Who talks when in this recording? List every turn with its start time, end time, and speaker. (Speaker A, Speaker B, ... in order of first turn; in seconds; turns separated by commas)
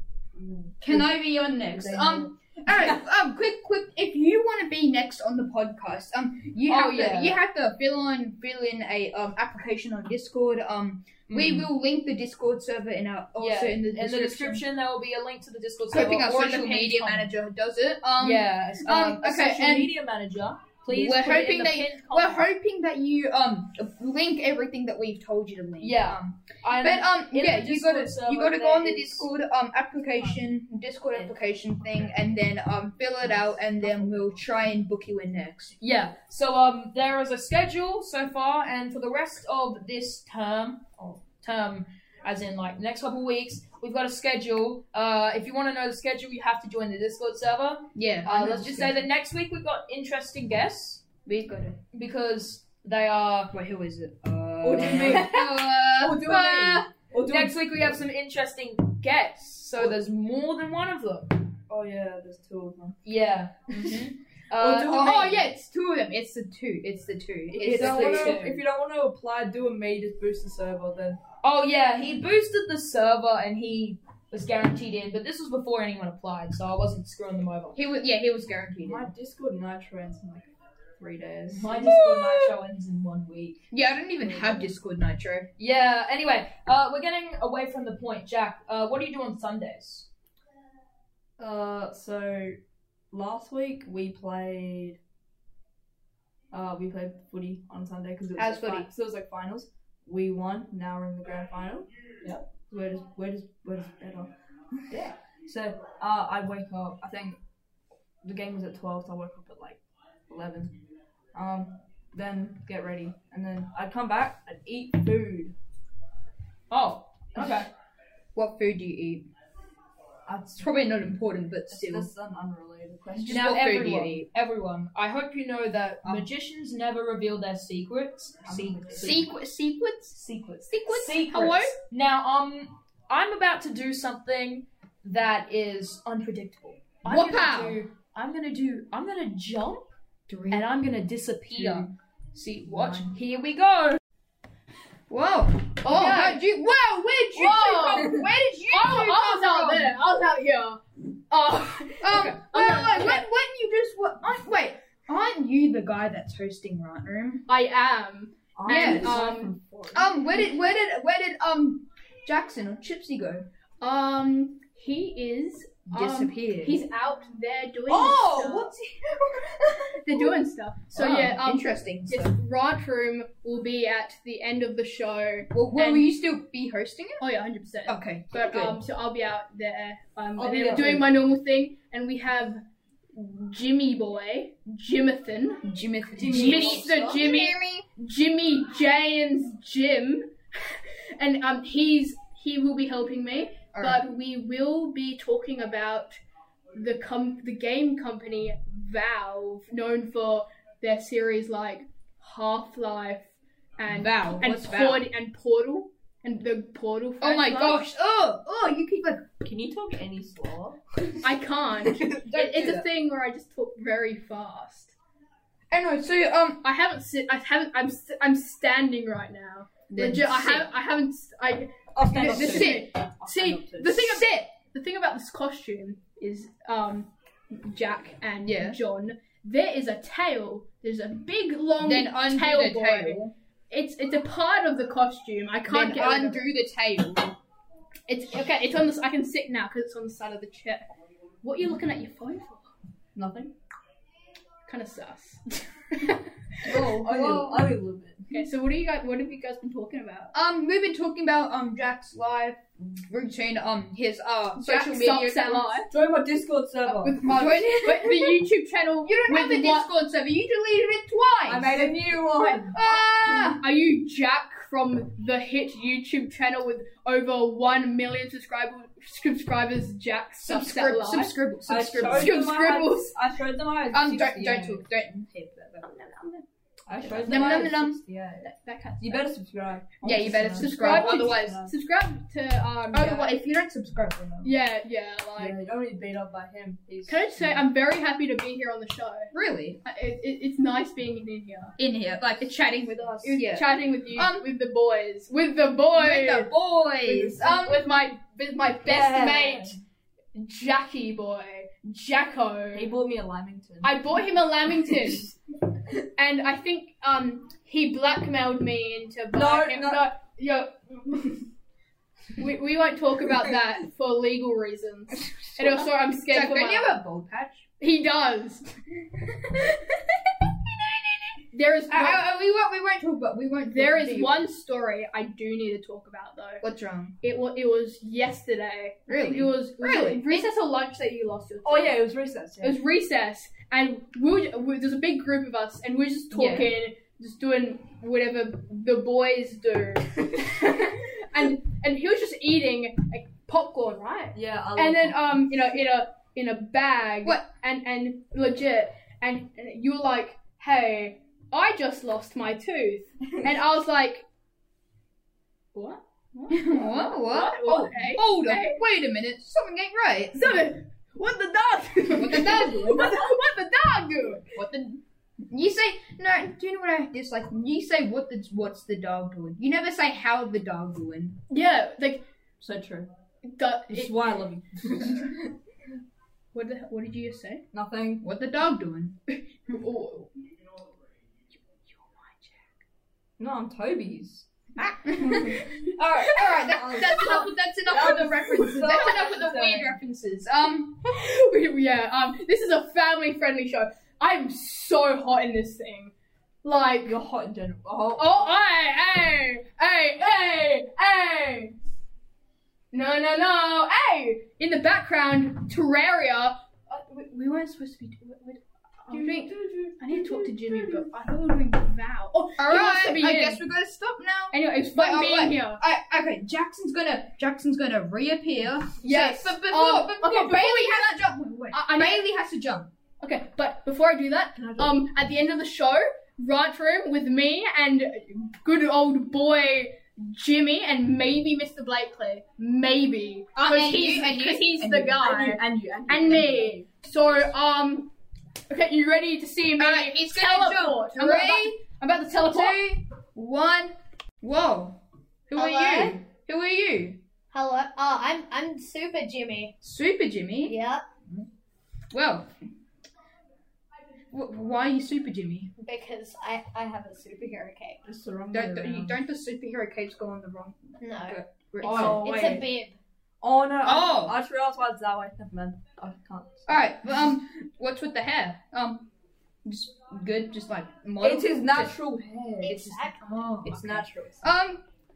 Speaker A: 0.3-3.0, Speaker B: 0.8-14.7, Speaker C: 6.7-7.4, Speaker C: 11.3-11.7, Speaker C: 13.4-17.3, Speaker B: 15.9-19.9, Speaker C: 18.2-22.5, Speaker B: 20.9-35.8, Speaker C: 25.8-29.3, Speaker A: 33.2-34.4, Speaker C: 35.8-51.0, Speaker B: 48.0-49.0, Speaker B: 51.3-51.8, Speaker C: 51.9-53.6, Speaker B: 53.5-56.9, Speaker C: 54.6-55.6, Speaker A: 54.6-55.4, Speaker A: 56.0-57.6, Speaker C: 57.2-61.5, Speaker A: 61.7-63.0, Speaker C: 63.0-65.5, Speaker B: 63.8-68.4, Speaker A: 67.5-71.2, Speaker C: 67.6-68.6, Speaker C: 71.4-77.8, Speaker B: 77.8-79.1, Speaker A: 78.8-81.8, Speaker C: 81.5-83.7, Speaker B: 81.8-82.5, Speaker B: 83.7-85.5, Speaker A: 84.2-84.7, Speaker C: 85.6-90.1, Speaker A: 91.4-92.6, Speaker A: 93.1-95.0, Speaker A: 96.5-101.9, Speaker B: 98.4-98.9, Speaker A: 102.7-107.4, Speaker A: 108.2-110.8, Speaker A: 111.3-115.6, Speaker C: 116.7-117.7, Speaker A: 117.3-117.7, Speaker B: 118.3-119.3, Speaker A: 120.3-120.8, Speaker B: 120.6-122.1, Speaker A: 121.7-123.7, Speaker B: 123.2-124.2, Speaker C: 123.3-129.3, Speaker A: 128.4-129.3, Speaker B: 129.0-130.2, Speaker C: 130.1-139.9, Speaker B: 130.7-131.8, Speaker B: 137.1-137.8, Speaker B: 140.3-140.7, Speaker C: 140.5-144.0, Speaker B: 141.6-141.9, Speaker B: 142.7-143.1, Speaker B: 145.1-149.9, Speaker D: 145.9-146.4, Speaker D: 147.3-153.2, Speaker B: 152.0-157.5, Speaker D: 157.5-159.5, Speaker A: 158.6-160.3, Speaker B: 158.7-159.2, Speaker B: 159.9-163.5, Speaker D: 163.8-168.7, Speaker B: 165.9-166.8, Speaker B: 167.9-169.6, Speaker D: 169.9-176.1, Speaker B: 170.9-172.4, Speaker B: 175.5-177.2, Speaker D: 177.2-182.6, Speaker B: 177.9-178.8, Speaker A: 180.4-181.1, Speaker D: 183.1-185.7, Speaker B: 185.6-187.9, Speaker A: 186.2-187.2, Speaker D: 186.2-196.2, Speaker B: 193.7-194.0, Speaker D: 196.7-207.8, Speaker B: 203.9-205.0, Speaker B: 207.2-209.4, Speaker A: 209.4-211.3, Speaker D: 211.2-215.0, Speaker A: 211.8-212.2, Speaker B: 212.2-212.9, Speaker B: 215.7-216.6, Speaker D: 216.6-236.4, Speaker B: 219.9-220.7, Speaker A: 221.9-223.9, Speaker B: 222.1-222.9, Speaker B: 223.8-224.5, Speaker B: 228.4-228.8, Speaker B: 231.8-233.3, Speaker B: 235.7-237.4, Speaker D: 238.1-240.9, Speaker D: 241.4-242.7, Speaker A: 243.2-243.5, Speaker D: 244.7-246.8, Speaker B: 246.6-247.8, Speaker A: 246.7-248.4, Speaker D: 248.3-250.3, Speaker B: 250.3-255.8, Speaker D: 254.6-255.9, Speaker A: 255.9-257.2, Speaker D: 257.0-259.9, Speaker B: 257.2-258.4, Speaker B: 259.1-261.8, Speaker A: 261.5-262.8, Speaker D: 261.7-262.7, Speaker B: 262.7-263.6, Speaker D: 263.5-271.4, Speaker B: 270.4-272.4, Speaker A: 271.7-274.8, Speaker D: 272.1-273.1, Speaker B: 273.9-276.4, Speaker A: 276.9-281.7, Speaker B: 277.1-278.0, Speaker D: 277.1-277.8, Speaker D: 278.4-279.2, Speaker B: 280.0-281.6, Speaker D: 280.6-283.3, Speaker B: 282.9-284.5, Speaker D: 284.4-285.6, Speaker A: 285.4-287.6, Speaker D: 287.1-289.3, Speaker B: 289.3-289.8, Speaker D: 289.9-291.8, Speaker B: 291.8-294.5, Speaker D: 293.2-296.5, Speaker B: 296.0-297.9, Speaker A: 297.1-297.4, Speaker D: 297.2-299.8, Speaker A: 298.8-299.8, Speaker D: 300.3-302.9, Speaker A: 302.7-304.2, Speaker D: 303.8-305.4, Speaker D: 306.2-311.4, Speaker A: 309.3-310.1, Speaker D: 312.4-317.0, Speaker B: 315.4-317.7, Speaker D: 317.8-318.8, Speaker B: 320.8-321.3, Speaker D: 321.5-322.3, Speaker B: 321.9-324.4, Speaker D: 323.7-326.6, Speaker B: 326.6-327.1, Speaker D: 327.2-332.0, Speaker B: 329.1-330.5, Speaker A: 331.6-332.8, Speaker D: 332.6-354.3, Speaker B: 336.3-336.7, Speaker A: 344.3-345.8, Speaker D: 355.7-358.8, Speaker B: 356.5-360.6, Speaker D: 360.3-365.0, Speaker B: 362.1-363.2, Speaker B: 365.5-371.4, Speaker D: 371.5-372.3, Speaker A: 372.6-373.1, Speaker D: 373.4-374.2, Speaker A: 373.9-375.6, Speaker D: 376.5-377.6, Speaker A: 377.7-378.2, Speaker B: 378.2-379.2, Speaker D: 379.7-380.3, Speaker D: 382.0-382.4, Speaker A: 383.4-384.5, Speaker B: 384.8-391.0, Speaker A: 385.2-390.0, Speaker D: 391.0-396.1, Speaker D: 396.6-397.2, Speaker A: 397.0-398.5, Speaker D: 398.1-401.8, Speaker D: 402.9-406.6, Speaker B: 406.9-409.5, Speaker D: 409.1-413.6, Speaker A: 409.1-410.6, Speaker B: 412.6-422.9, Speaker D: 414.5-415.8, Speaker D: 419.0-421.1, Speaker D: 421.7-422.2, Speaker D: 423.2-438.1, Speaker A: 424.6-425.0, Speaker B: 433.6-435.6, Speaker A: 435.2-436.7, Speaker D: 438.7-443.0, Speaker B: 439.8-447.2, Speaker D: 445.5-446.2, Speaker E: 447.5-449.8, Speaker B: 449.8-450.8, Speaker E: 450.6-451.0, Speaker B: 452.1-452.5, Speaker B: 454.3-455.7, Speaker E: 455.8-458.0, Speaker A: 458.0-459.2, Speaker B: 458.5-462.6, Speaker E: 461.0-463.0, Speaker A: 461.8-462.7, Speaker A: 463.4-467.2, Speaker B: 463.8-464.3, Speaker B: 466.7-469.1, Speaker B: 469.6-471.9, Speaker A: 471.2-472.9, Speaker E: 472.6-473.9, Speaker B: 472.7-474.8, Speaker A: 473.6-474.5